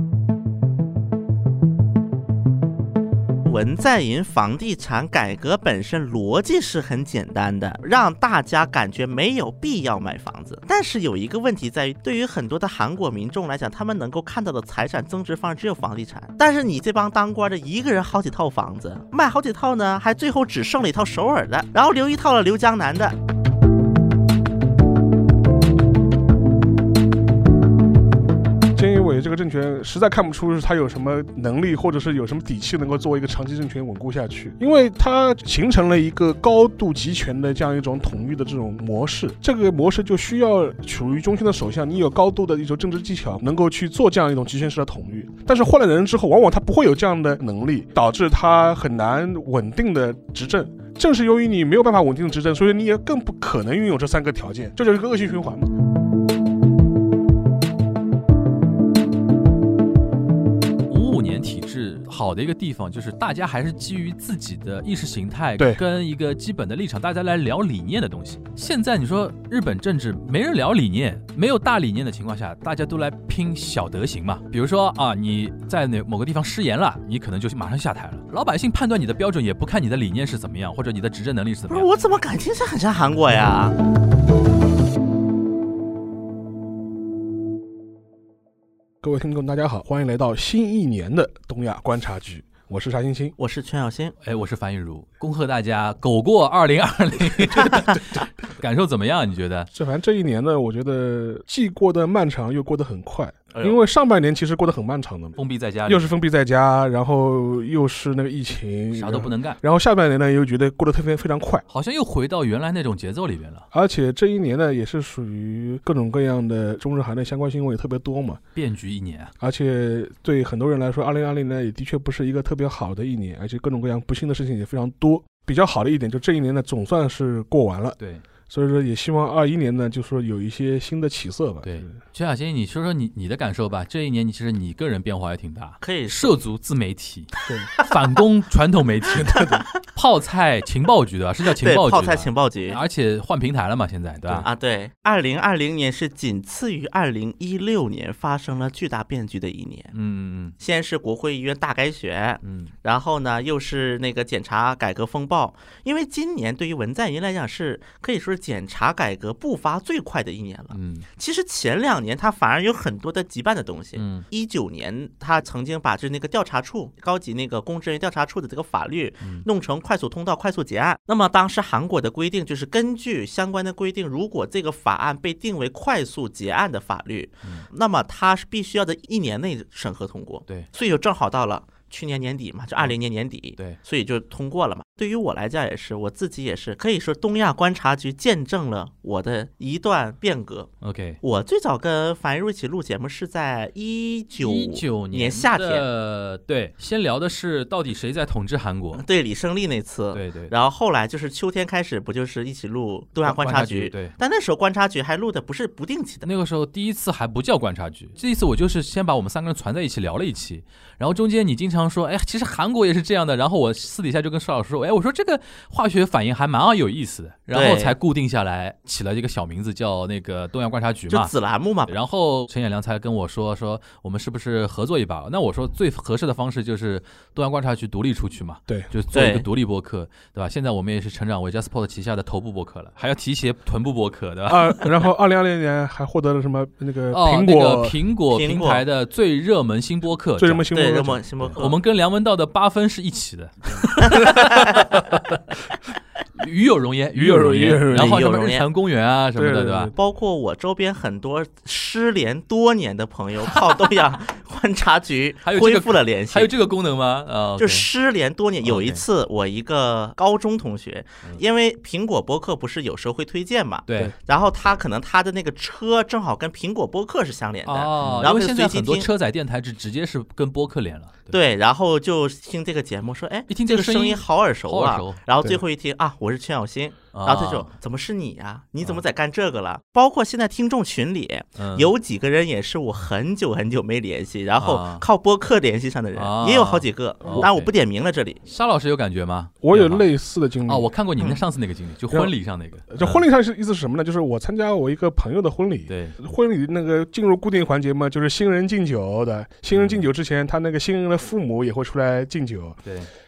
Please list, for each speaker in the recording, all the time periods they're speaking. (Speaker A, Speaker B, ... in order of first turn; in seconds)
Speaker A: 3.5-23.2, 81.7-83.8, 93.4-94.2, 135.8-136.3, 141.6-142.8, 144.3-149.9, 150.6-190.7, 191.2-195.8, 198.9-206.3, 217.5-217.9, 221.1-221.9, 229.1-229.5, 238.3-238.8, 240.7-241.8, 244.0-244.9, 247.9-248.7, 249.9-256.5, 257.6-269.1, 271.3-288.4
Speaker B: 28.7-55.7, 89.0-93.3, 99.7-111.6, 113.7-118.4, 119.4-128.0, 128.5-131.9, 139.1-139.7, 234.5-238.0, 240.4-241.6, 247.1-248.2, 249.4-249.9, 289.6-290.9, 292.9-302.8
Speaker C: 60.9-81.9, 94.2-99.7, 105.4-106.1, 108.9-109.6, 111.7-113.7, 118.6-119.3, 131.6-144.5, 149.9-150.6, 152.4-152.7, 160.7-161.1, 163.9-164.3, 190.8-191.2, 194.4-199.0, 200.1-200.5, 203.2-204.2, 206.2-221.3, 221.9-234.9, 237.1-240.7, 241.6-245.4, 246.4-249.9, 255.4-257.9, 258.6-259.0, 263.9-264.1, 267.7-271.3, 273.5-275.2, 277.1-277.7, 281.6-281.9, 284.6-285.1, 286.2-287.7, 288.5-290.1, 290.7-293.2, 295.9-296.2, 299.7-300.1